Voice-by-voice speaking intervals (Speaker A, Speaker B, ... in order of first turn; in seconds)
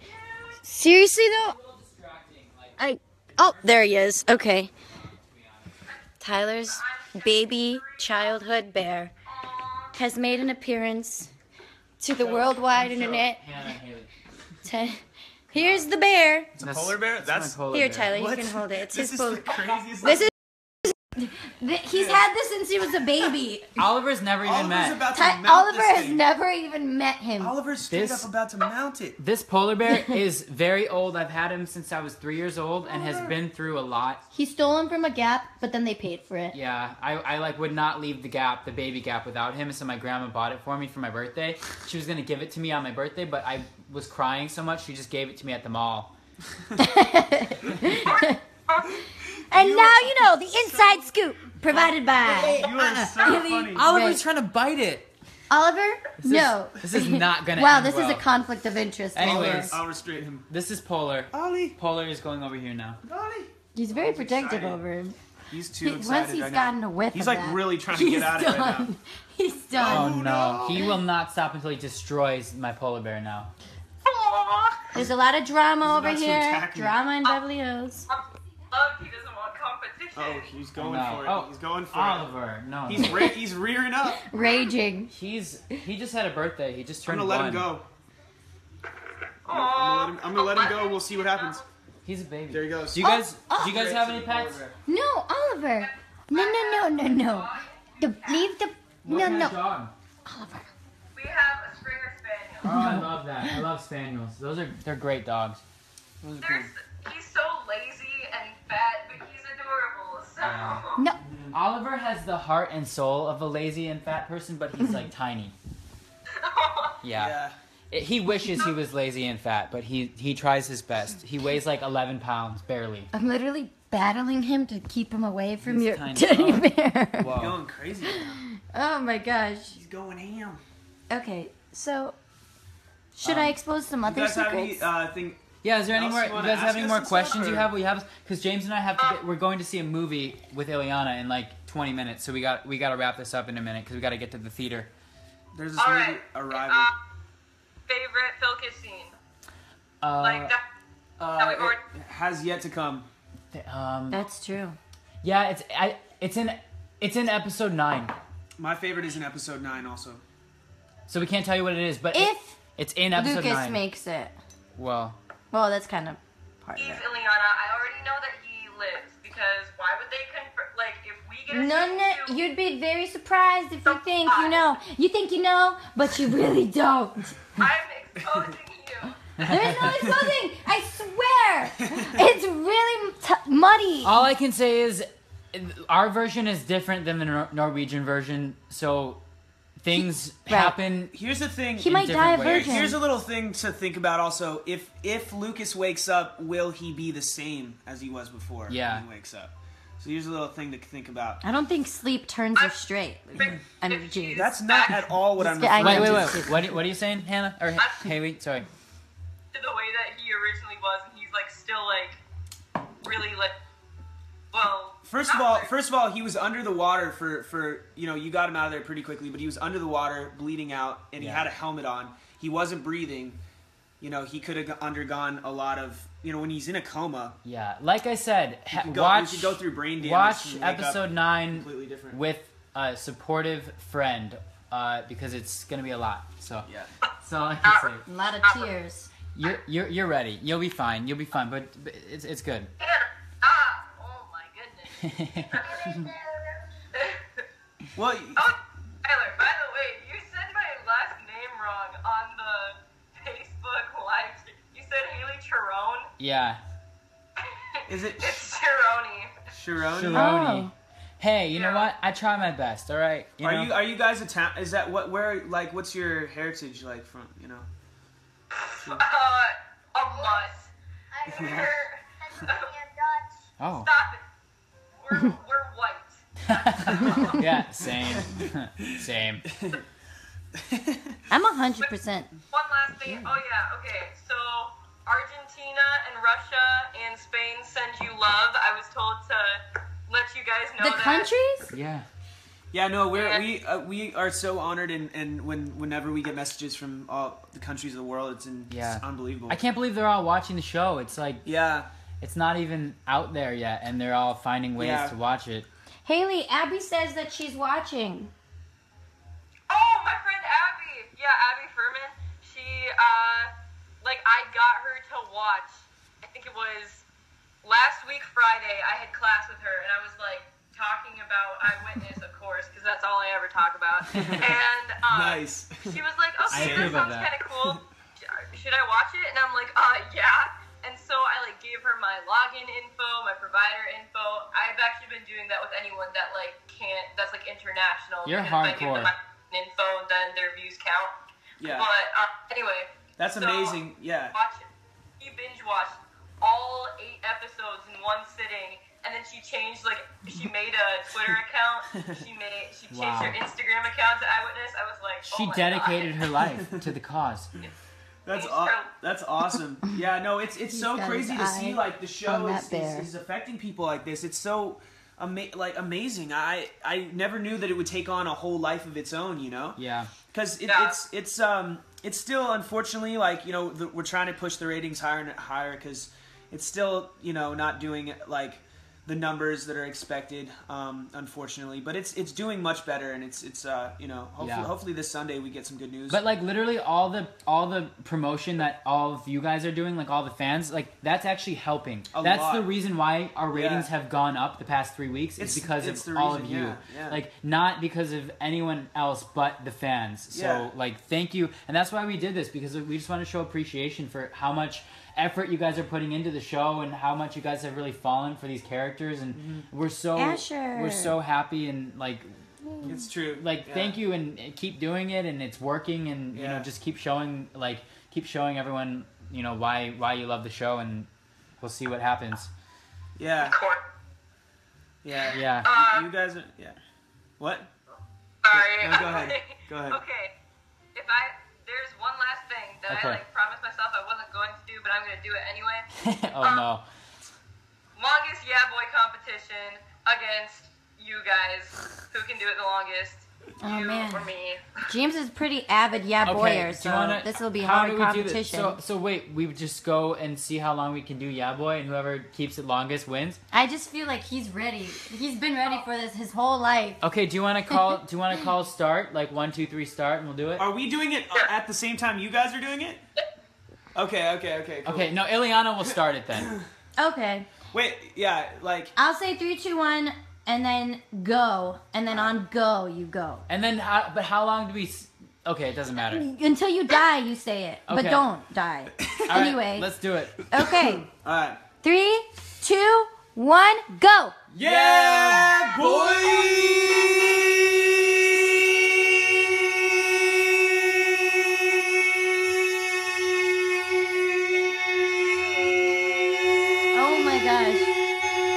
Speaker A: 0.3-0.5, 6.7-8.4, 9.3-10.0, 50.5-50.9, 74.0-74.9, 78.1-80.5, 89.5-91.6, 95.8-98.5, 101.2-102.9, 106.4-111.0, 116.3-117.0, 145.8-146.9, 147.9-149.1, 150.2-150.6, 151.4-151.8, 166.8-172.4, 173.9-174.8, 177.6-179.2, 203.4-205.1, 207.8-208.1, 209.5-212.2, 213.0-213.6, 214.5-215.7, 242.8-246.0, 246.9-247.5, 248.4-256.1, 257.4-259.3, 261.5-261.9, 268.6-270.7, 271.3-272.7, 273.8-274.2, 275.0-277.5, 282.5-291.3, 293.1-293.5, 309.7-317.0, 317.6-343.8, 344.3-344.7, 345.2-356.2, 358.3-358.9, 370.7-371.0, 423.4-423.8, 425.2-426.1, 428.4-430.3, 430.9-435.9, 436.4-436.7, 438.0-444.7
Speaker B: 0.6-1.6, 2.8-4.7, 6.2-9.1, 9.9-11.3, 12.0-13.4, 14.6-16.5, 17.7-19.4, 21.2-23.8, 25.1-27.5, 32.9-33.3, 34.3-36.6, 46.8-48.4, 49.5-54.2, 55.5-59.8, 63.8-65.2, 65.8-70.2, 74.9-78.1, 84.2-85.1, 93.0-93.7, 94.9-99.6, 100.2-100.7, 102.7-103.6, 123.1-127.3, 128.1-129.8, 131.1-132.2, 133.2-134.9, 154.1-154.8, 162.1-162.6, 163.2-164.4, 165.5-167.0, 171.5-177.4, 179.4-184.2, 190.5-190.8, 191.8-193.0, 201.4-204.5, 205.4-206.6, 238.1-239.1, 260.1-260.7, 281.3-282.3, 290.8-291.7, 306.1-308.3, 360.7-363.1, 410.2-411.1, 443.6-444.3, 444.9-448.8, 453.5-457.0, 467.0-467.5, 469.0-473.4, 476.1-479.9, 480.5-481.1, 481.8-486.2, 496.9-497.9
Speaker C: 1.4-2.8, 3.4-4.3, 5.0-5.8, 12.1-14.1, 15.5-15.9, 16.6-18.2, 23.8-25.1, 27.9-28.3, 29.2-34.2, 36.5-46.1, 52.4-55.1, 56.7-58.3, 59.1-59.8, 60.5-63.0, 69.8-73.5, 80.8-83.3, 85.1-87.7, 92.0-94.6, 99.0-99.9, 102.6-105.6, 110.4-110.8, 111.5-115.5, 117.0-117.4, 117.9-123.1, 125.6-127.6, 133.2-133.6, 135.6-144.9, 150.0-150.5, 153.5-154.2, 155.2-158.2, 161.1-163.8, 164.8-165.2, 179.4-180.0, 184.0-189.2, 189.8-191.2, 191.8-192.9, 198.7-199.1, 205.8-208.7, 221.2-221.4, 227.4-236.7, 237.2-238.0, 239.3-242.7, 245.0-245.6, 256.2-256.6, 259.9-263.8, 273.6-273.9, 276.4-279.5, 291.7-292.1, 298.7-301.5, 302.2-305.7, 324.1-324.5, 326.5-327.3, 338.2-339.1, 352.9-353.4, 355.3-357.5, 369.8-370.1, 384.4-384.7, 386.1-412.3, 412.8-421.1, 421.6-422.5, 425.3-425.7, 432.9-433.2, 435.9-436.9, 446.2-453.4, 457.0-460.7, 464.8-466.5, 473.5-476.3, 477.9-478.2, 479.3-480.4
Speaker D: 16.6-17.6, 18.1-20.3, 24.4-26.2, 27.4-29.2, 49.5-50.1, 52.2-53.8, 56.2-56.6, 59.2-60.5, 61.3-61.8, 63.0-64.8, 65.5-68.9, 69.8-71.0, 75.8-77.0, 80.2-82.3, 82.8-84.2, 87.1-87.9, 89.5-91.6, 92.5-94.8, 106.2-106.7, 111.2-111.5, 117.1-117.6, 127.3-128.4, 129.7-130.6, 134.1-137.7, 145.5-146.9, 151.2-153.1, 158.6-160.2, 180.0-180.3, 181.9-182.2, 191.1-201.4, 204.3-206.5, 215.1-223.4, 224.0-227.4, 228.7-232.2, 236.7-236.9, 247.9-248.5, 257.9-258.5, 259.5-260.3, 263.4-267.7, 271.3-271.7, 278.2-279.8, 280.6-281.2, 292.7-299.6, 301.4-301.9, 304.8-305.1, 324.1-324.5, 325.1-327.8, 341.6-341.9, 343.2-344.4, 358.2-386.2, 392.1-392.7, 393.5-393.9, 395.4-397.2, 400.3-400.7, 409.3-409.7, 412.9-414.0, 416.3-416.7, 423.2-423.6, 425.0-426.8, 427.4-427.7, 428.5-430.0, 460.6-463.0, 463.9-465.2, 467.7-468.9, 472.1-472.4, 479.0-479.3, 480.6-481.6, 484.5-488.3
Speaker E: 245.6-246.7, 270.0-270.5, 271.1-273.4